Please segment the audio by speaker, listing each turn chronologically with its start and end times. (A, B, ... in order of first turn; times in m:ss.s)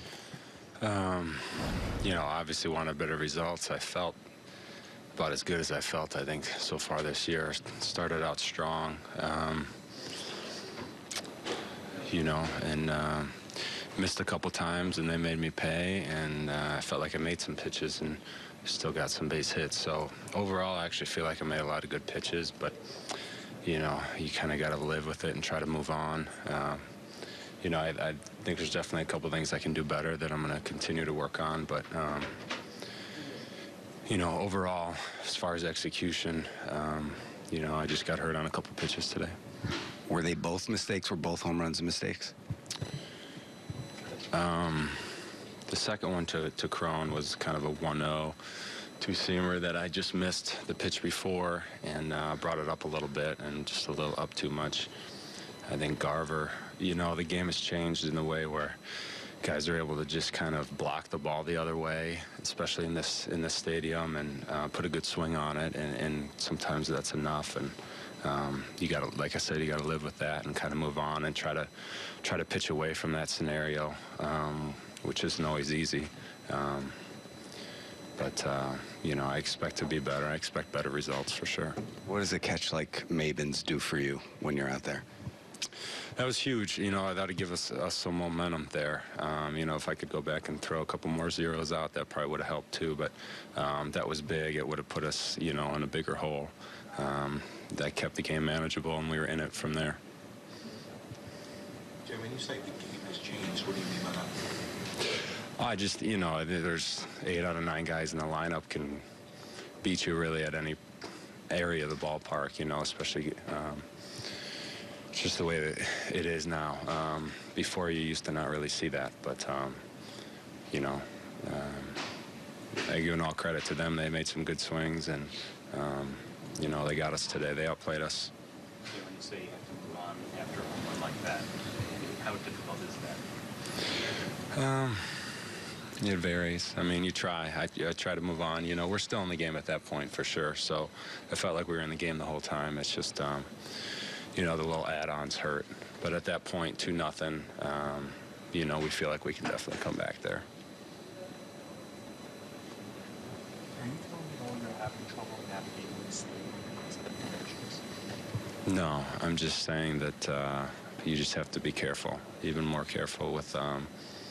0:00.8-0:04.2 A
0:05.1-0:09.7 A
0:12.0-0:26.9 A
0:27.6-0:32.4 A
0:34.1-0:39.4 A
0:40.1-0:42.3 B
0:44.3-0:54.9 A
0:55.6-0:58.8 A
0:59.4-1:17.0 A
1:18.2-1:21.8 A
1:22.0-1:25.0 B
1:26.2-1:40.0 A
1:42.0-1:44.4 C
1:45.6-1:49.0 A
1:49.8-1:50.8 A
1:51.5-1:54.3 A
1:55.1-1:59.8 A
2:00.7-2:02.1 A
2:02.9-2:08.3 A
2:08.9-2:13.2 D
2:14.5-2:30.4 A
2:33.8-2:37.8 D
2:38.6-2:43.9 A